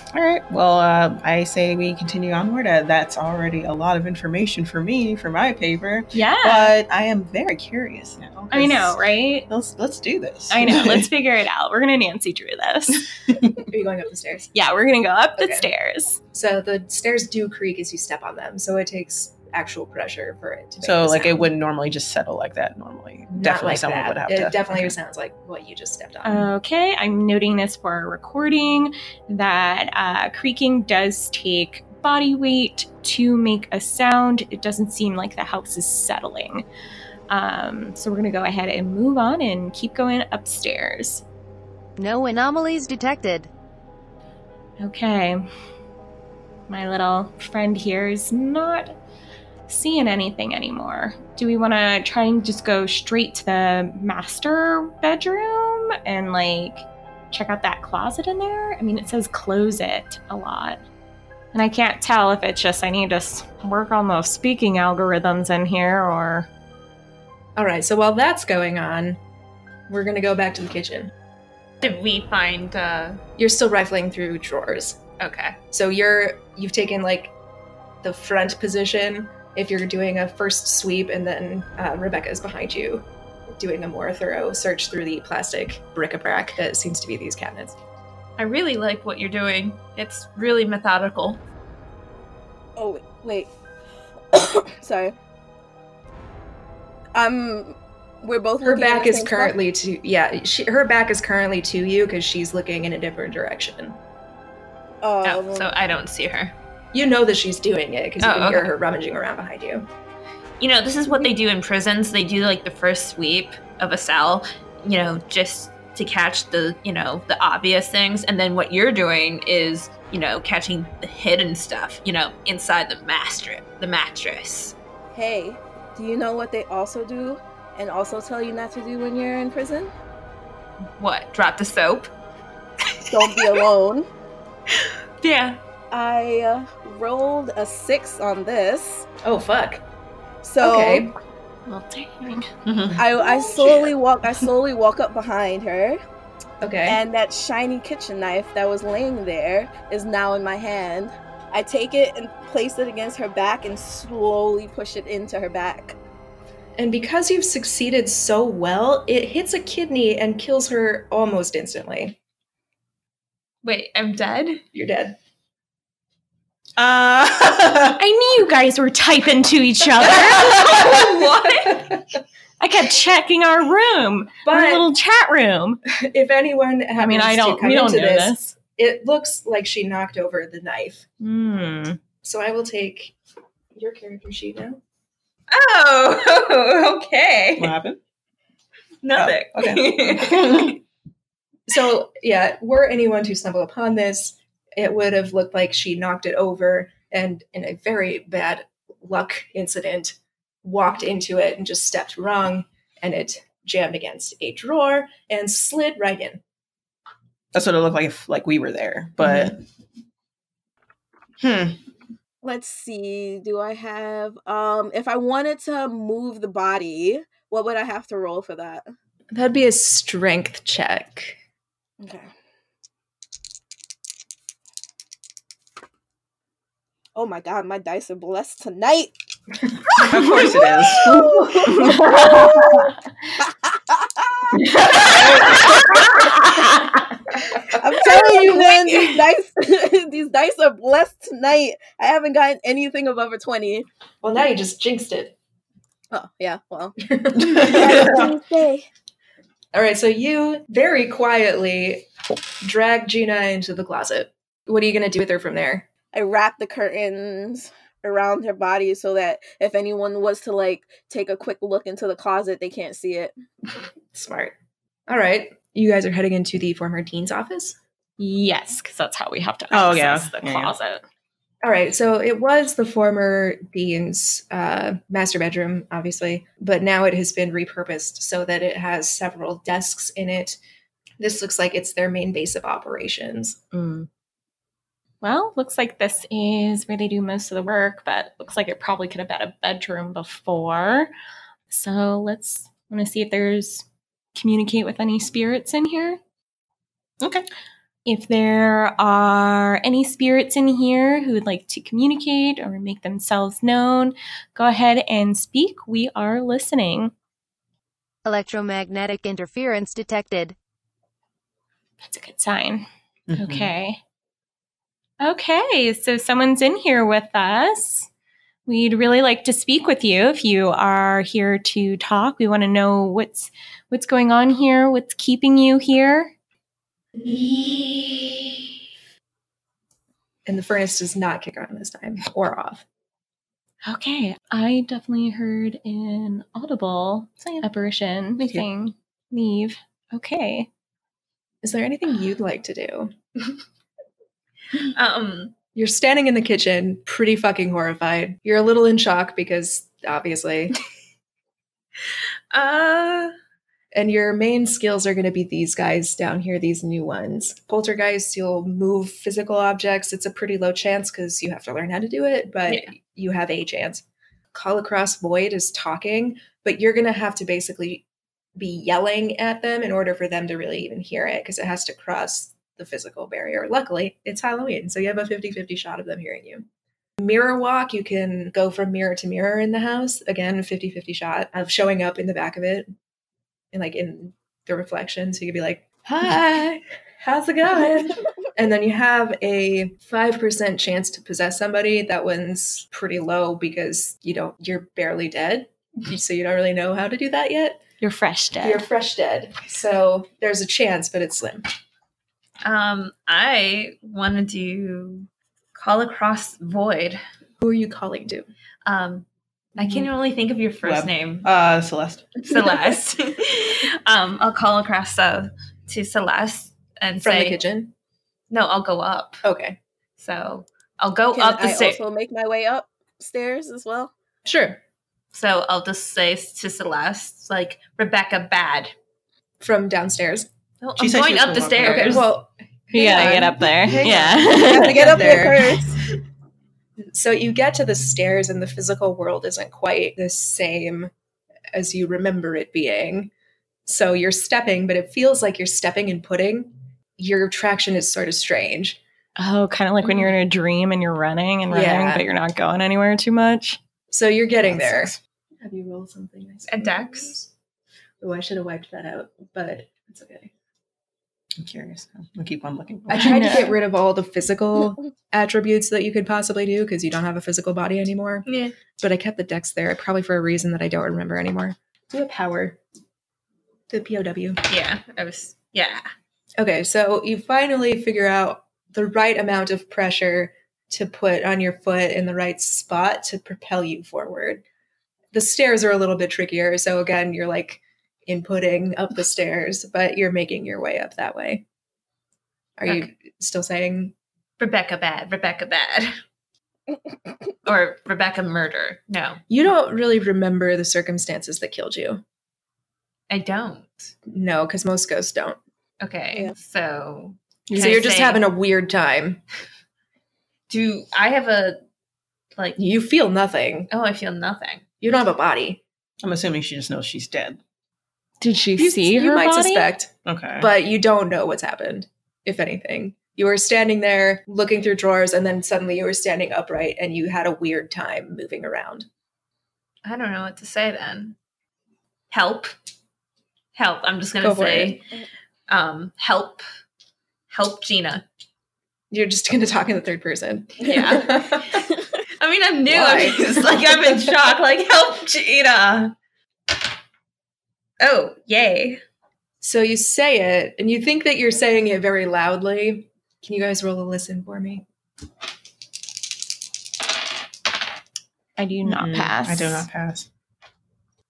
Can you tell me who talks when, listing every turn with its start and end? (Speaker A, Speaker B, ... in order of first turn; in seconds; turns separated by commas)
Speaker A: 0.1-11.1, Speaker B: 6.1-6.8, Speaker B: 8.5-9.5, Speaker B: 10.5-13.1, Speaker A: 13.3-13.5, Speaker C: 13.7-14.5, Speaker B: 14.5-16.2, Speaker C: 15.4-15.7, Speaker C: 16.3-21.5, Speaker A: 20.8-24.9, Speaker C: 23.3-26.5, Speaker B: 26.2-36.6, Speaker B: 37.3-41.2, Speaker D: 42.0-43.5, Speaker B: 44.8-45.4, Speaker B: 46.7-49.0, Speaker B: 49.7-60.8, Speaker B: 61.5-66.5, Speaker C: 67.6-69.2, Speaker C: 69.9-71.1, Speaker E: 71.8-73.2, Speaker C: 73.4-75.0, Speaker E: 75.2-75.6, Speaker C: 75.7-77.3, Speaker C: 78.0-87.8, Speaker E: 88.4-91.4, Speaker F: 92.8-93.5, Speaker F: 94.3-95.2, Speaker F: 97.2-99.5, Speaker C: 98.6-104.0, Speaker F: 105.0-105.7, Speaker E: 105.2-106.5, Speaker C: 106.9-109.9, Speaker E: 108.2-108.7, Speaker E: 110.6-124.8, Speaker F: 125.1-129.9, Speaker E: 131.0-132.1, Speaker E: 132.9-133.6, Speaker F: 133.1-134.1, Speaker E: 134.7-135.6, Speaker F: 135.9-139.1, Speaker C: 139.2-139.8, Speaker F: 140.4-141.1, Speaker C: 140.6-141.1, Speaker B: 141.7-142.5, Speaker A: 142.7-143.0, Speaker F: 142.9-146.0, Speaker C: 143.6-143.9, Speaker C: 146.6-147.0, Speaker F: 146.9-156.0, Speaker C: 156.8-162.2, Speaker E: 163.6-164.6, Speaker C: 164.7-165.2, Speaker A: 166.8-168.0, Speaker B: 168.0-170.6, Speaker E: 170.2-172.0, Speaker C: 170.5-172.0, Speaker B: 172.6-175.8, Speaker C: 174.4-174.9, Speaker C: 175.9-181.1, Speaker B: 177.0-178.6, Speaker B: 181.2-182.0, Speaker C: 182.2-183.2, Speaker C: 183.8-184.8, Speaker E: 185.5-187.8, Speaker A: 187.6-188.0, Speaker E: 189.0-190.8, Speaker A: 189.2-190.8, Speaker C: 191.7-206.4, Speaker A: 207.5-209.6, Speaker C: 209.2-209.5, Speaker A: 211.4-211.8, Speaker F: 212.4-218.9, Speaker C: 219.3-221.4, Speaker F: 222.0-222.3, Speaker F: 227.2-229.1, Speaker A: 229.9-231.4, Speaker B: 230.2-230.5, Speaker F: 230.4-236.9, Speaker B: 231.1-232.9, Speaker B: 234.6-235.6, Speaker B: 236.6-236.8, Speaker F: 237.5-243.9, Speaker C: 244.2-245.3, Speaker F: 246.1-248.9, Speaker C: 247.0-248.3, Speaker C: 249.7-252.1, Speaker C: 252.6-255.9, Speaker F: 256.1-263.3, Speaker C: 264.1-264.6, Speaker C: 265.1-267.8, Speaker B: 268.2-271.0, Speaker A: 269.7-270.7, Speaker C: 271.6-280.6, Speaker C: 281.2-283.6, Speaker B: 283.8-284.1, Speaker B: 285.2-291.1, Speaker B: 291.7-296.2, Speaker A: 297.2-297.5, Speaker B: 298.1-307.1, Speaker D: 308.2-310.6, Speaker B: 312.0-314.0, Speaker A: 313.3-313.7, Speaker B: 315.2-318.1, Speaker B: 318.7-326.3, Speaker C: 327.2-328.4, Speaker C: 330.5-332.9, Speaker B: 333.9-340.7, Speaker A: 338.4-338.7, Speaker C: 341.6-343.1, Speaker E: 344.8-345.5, Speaker C: 345.8-350.8, Speaker E: 352.5-353.3, Speaker C: 353.9-368.1, Speaker C: 368.6-376.7, Speaker C: 377.2-382.9, Speaker C: 383.7-397.8, Speaker B: 398.0-398.9, Speaker C: 398.6-401.7, Speaker E: 402.6-407.2, Speaker C: 407.6-408.5, Speaker E: 408.9-411.5, Speaker A: 410.8-412.5, Speaker E: 412.4-417.6, Speaker C: 417.2-417.9, Speaker E: 418.5-419.4, Speaker C: 419.4-419.8, Speaker E: 420.2-422.0, Speaker F: 421.3-424.1, Speaker C: 424.4-424.8, Speaker E: 425.3-428.9, Speaker C: 429.6-430.5, Speaker E: 430.8-432.3, Speaker A: 431.0-432.3, Speaker C: 431.8-436.0, Speaker B: 432.9-435.4, Speaker F: 434.5-435.9, Speaker C: 437.0-441.1, Speaker C: 441.7-443.3, Speaker C: 443.9-449.0, Speaker B: 449.4-453.8, Speaker C: 451.7-452.2, Speaker C: 454.1-457.5, Speaker A: 454.7-455.2, Speaker E: 456.7-457.4, Speaker C: 458.2-460.5, Speaker A: 461.6-463.6, Speaker C: 463.1-472.8, Speaker B: 463.1-463.7, Speaker E: 468.5-468.8, Speaker C: 473.9-474.6, Speaker E: 474.7-476.1, Speaker C: 476.6-484.6, Speaker C: 485.3-491.6, Speaker C: 492.8-494.1, Speaker E: 494.6-496.1, Speaker E: 497.6-499.4, Speaker C: 499.5-502.2, Speaker E: 503.3-504.1, Speaker C: 504.3-505.6, Speaker E: 506.0-508.5, Speaker B: 507.7-508.0, Speaker C: 507.7-509.4, Speaker E: 510.7-511.8, Speaker C: 512.8-513.9, Speaker E: 513.9-514.8, Speaker C: 515.0-515.8, Speaker A: 516.2-517.6, Speaker B: 518.4-519.9, Speaker C: 518.8-529.1, Speaker A: 520.2-520.7, Speaker E: 530.0-531.4, Speaker E: 532.3-532.7, Speaker E: 533.8-535.0, Speaker C: 534.4-535.0, Speaker E: 535.7-536.6, Speaker E: 537.5-538.2, Speaker C: 539.1-541.8, Speaker E: 540.8-541.9, Speaker E: 542.4-546.1, Speaker C: 542.9-544.3, Speaker E: 548.0-549.0, Speaker C: 549.6-554.9, Speaker B: 558.6-559.9, Speaker A: 558.9-560.3